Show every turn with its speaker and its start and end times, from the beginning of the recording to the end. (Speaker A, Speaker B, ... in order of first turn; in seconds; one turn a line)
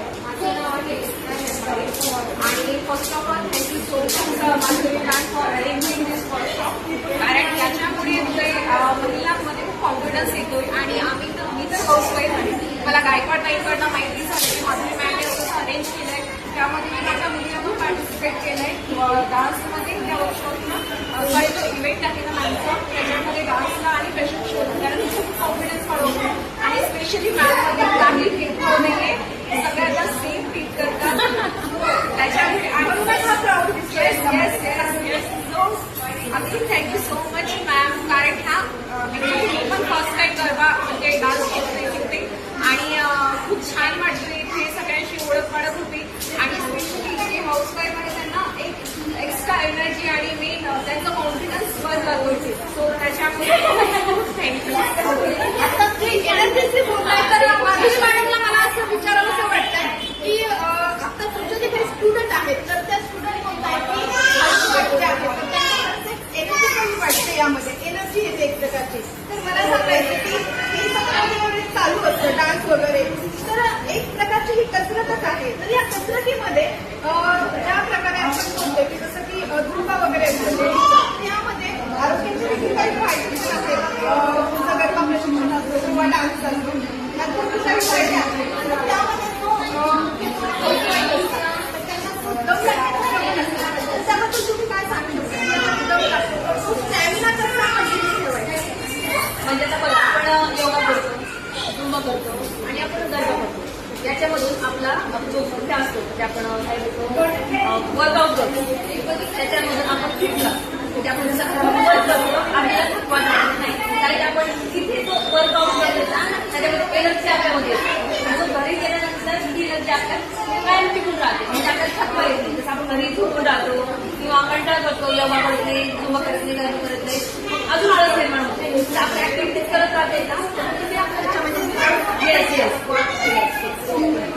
Speaker A: 0.2-33.1
Speaker B: 32.2-35.5
Speaker A: 34.1-35.8
Speaker A: 36.3-55.6
Speaker B: 55.2-98.7
Speaker C: 57.1-58.1
Speaker C: 99.4-134.3
Speaker B: 131.0-132.2